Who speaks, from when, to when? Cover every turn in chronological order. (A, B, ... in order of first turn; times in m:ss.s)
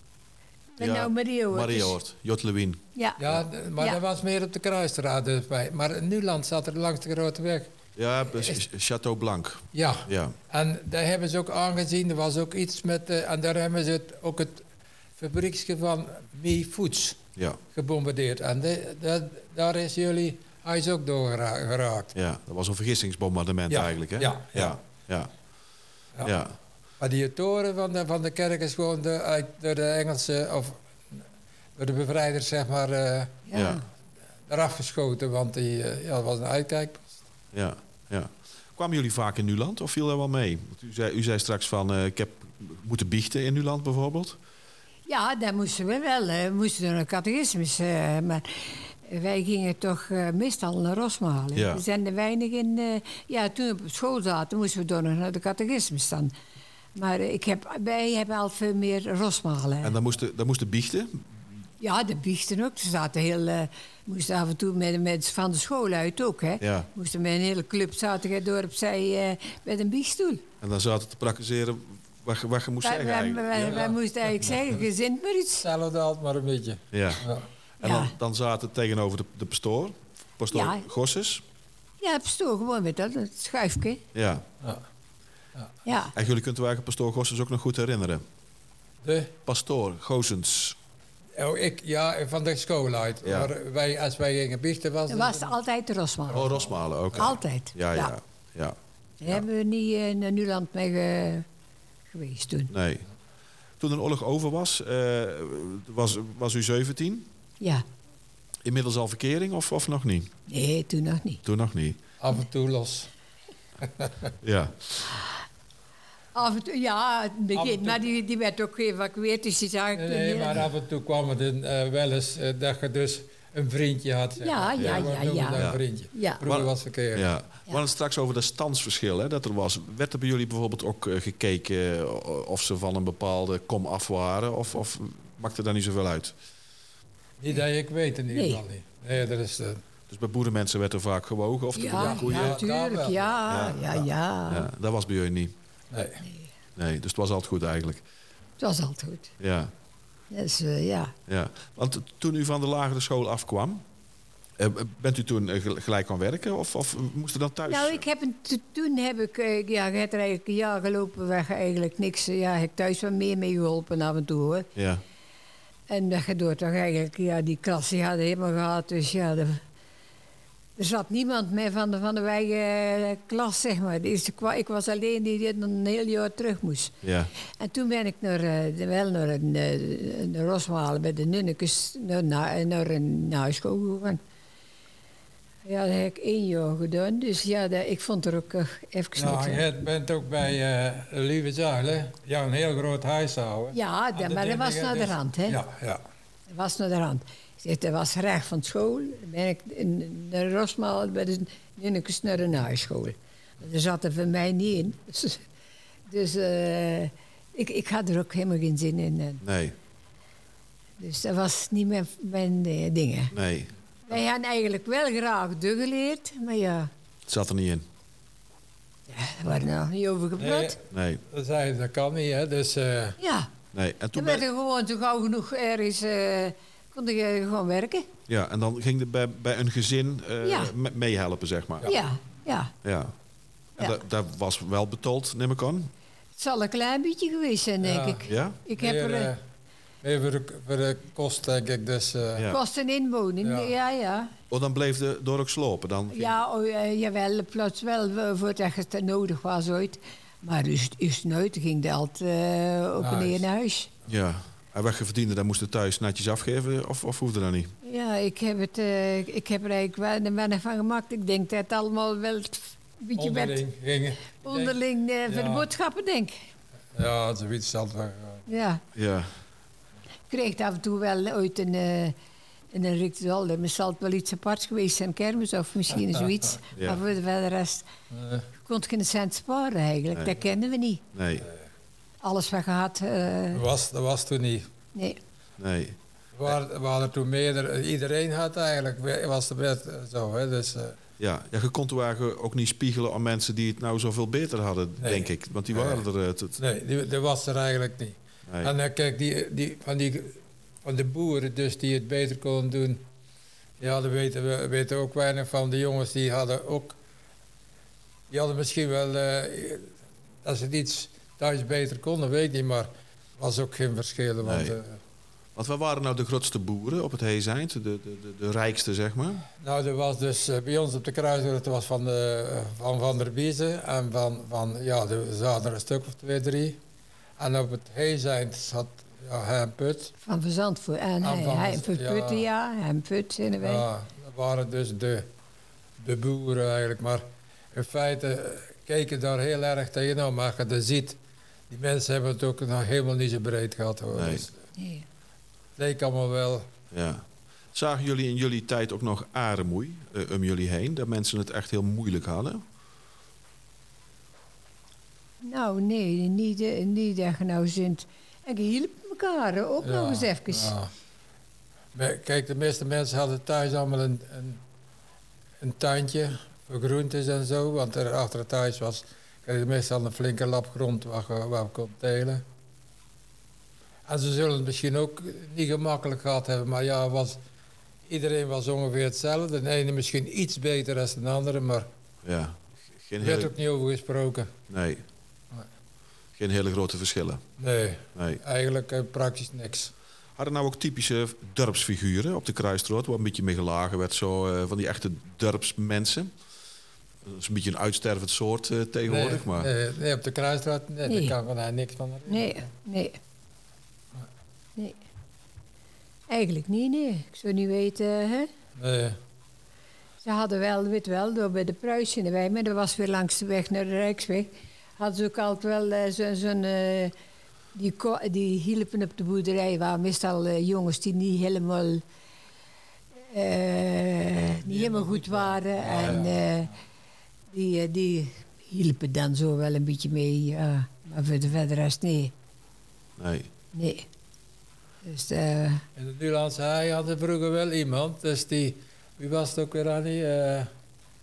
0:00.8-0:02.0 A
0:00.8-0:03.4 B
0:03.2-0:07.7 C
0:08.0-0:10.4 B
0:09.7-0:14.6 C
0:15.2-0:17.2 C
0:17.7-0:22.1 C
0:22.1-0:25.3 B
0:23.7-0:24.8 C
0:26.2-0:26.6 B
0:27.0-0:31.2 C
0:31.8-0:33.4 C
0:33.5-0:33.8 A
0:33.5-0:33.8 B
0:34.5-0:37.1 C
0:37.5-0:44.4 B
0:45.1-0:56.3 A
0:51.5-0:51.8 B
0:56.9-0:59.9 A
0:59.8-1:01.3 B
1:01.8-1:10.4 A
1:06.6-1:06.9 B
1:10.6-1:13.9 B
1:12.8-1:15.6 A
1:13.6-1:14.8 C
1:15.6-1:17.4 C
1:16.9-1:17.2 B
1:17.8-1:18.1 A
1:17.8-1:21.4 B
1:20.5-1:20.8 A
1:22.0-1:24.0 A
1:24.1-1:24.4 B
1:25.8-1:26.1 A
1:26.1-1:28.2 B
1:29.0-1:29.3 C
1:29.4-1:30.8 B
1:31.4-1:35.5 C
1:33.2-1:33.5 B
1:35.1-1:36.6 A
1:36.3-1:39.4 B
1:37.1-1:38.1 A
1:39.2-1:41.4 A
1:42.1-1:42.7 A
1:42.7-1:43.0 B
1:43.8-1:47.3 B
1:47.6-1:47.8 A
1:48.6-1:50.3 B
1:50.5-1:51.4 A
1:51.4-1:52.0 B
1:52.2-1:53.1 C
1:53.8-1:54.3 C
1:54.4-1:55.1 B
1:56.3-2:00.6 A
1:57.5-1:58.0 C
1:59.9-2:07.3 C
2:04.4-2:06.4 A
2:04.8-2:05.8 B
2:06.4-2:16.3 B
2:17.4-2:19.8 C
2:18.3-2:18.6 A
2:20.1-2:22.6 B
2:21.7-2:24.7 A
2:21.9-2:23.3 C
2:23.5-2:25.5 B
2:25.9-2:26.2 C
2:26.2-2:26.5 A
2:26.8-2:28.0 B
2:28.6-2:29.3 A
2:29.4-2:29.7 B
2:30.3-2:31.1 A
2:31.3-2:33.8 B
2:34.6-2:38.0 B
2:37.7-2:44.7 A
2:44.7-2:45.0 B
2:45.9-2:49.6 A
2:50.8-2:57.0 A
2:57.0-2:57.3 B
2:57.6-3:04.2 A
3:05.6-3:09.6 A
3:09.2-3:16.0 C
3:13.7-3:15.6 A
3:16.5-3:25.4 A
3:26.1-3:29.4 A
3:29.4-3:29.7 B
3:31.0-3:33.3 A
3:33.3-3:33.7 B
3:34.1-3:36.9 A
3:37.3-3:37.8 B
3:39.1-3:40.8 A
3:40.4-3:43.2 C
3:40.9-3:41.2 B
3:43.2-3:43.5 A
3:43.7-3:44.4 B
3:44.1-3:48.1 A
3:48.3-3:51.9 B
3:50.4-3:50.7 A
3:51.8-3:52.7 A
3:52.8-3:53.1 B
3:53.8-3:55.9 B
3:56.4-3:59.3 A
3:57.8-3:59.4 C
3:58.3-3:58.6 B
4:00.0-4:02.5 C
4:02.5-4:04.3 A
4:03.4-4:03.7 C
4:04.5-4:06.4 B
4:06.1-4:13.9 A
4:13.0-4:13.4 C
4:14.1-4:17.7 B
4:17.8-4:23.6 A
4:23.2-4:25.7 C
4:24.4-4:26.4 A
4:26.9-4:28.5 C
4:28.5-4:28.8 A
4:28.9-4:29.3 B
4:30.3-4:32.1 A
4:32.7-4:37.9 A
4:36.8-4:37.0 B
4:38.1-4:38.5 C
4:38.6-4:41.0 A
4:41.1-4:41.5 B
4:42.2-4:43.6 A
4:43.5-4:44.7 C
4:44.9-4:45.2 A
4:45.6-4:46.6 B
4:46.3-4:51.0 C
4:51.2-4:56.6 B
4:55.0-4:56.0 C
4:56.6-5:03.0 C
4:58.5-4:58.7 B
5:03.8-5:07.0 C
5:08.3-5:09.9 C
5:10.4-5:15.0 C
5:14.4-5:14.8 B
5:15.6-5:19.4 B
5:19.6-5:26.8 C
5:27.4-5:30.1 C
5:30.2-5:33.8 A
5:31.2-5:32.5 C
5:33.5-5:35.3 C
5:36.0-5:41.2 C
5:41.7-5:44.6 C
5:44.1-5:44.4 B
5:44.8-5:45.0 A
5:45.8-5:46.7 C
5:46.9-5:52.6 B
5:55.4-6:00.7 A
5:59.8-6:00.9 C
6:01.9-6:04.6 C
6:05.6-6:12.4 C
6:14.1-6:17.4 C
6:18.1-6:21.9 C
6:22.2-6:23.5 B
6:23.2-6:24.5 C
6:24.7-6:25.0 B
6:26.4-6:27.4 B
6:27.6-6:29.9 C
6:30.4-6:36.3 B
6:37.2-6:39.7 B
6:39.1-6:42.6 C
6:41.1-6:41.4 A
6:42.3-6:43.2 A
6:46.3-6:48.5 A
6:48.8-6:49.2 C
6:50.2-6:57.1 A
6:57.7-7:02.0 A
7:03.3-7:06.7 A
7:04.5-7:06.5 C
7:07.5-7:12.3 A
7:13.2-7:13.5 B
7:13.7-7:14.1 A
7:15.0-7:15.8 A
7:16.0-7:20.7 C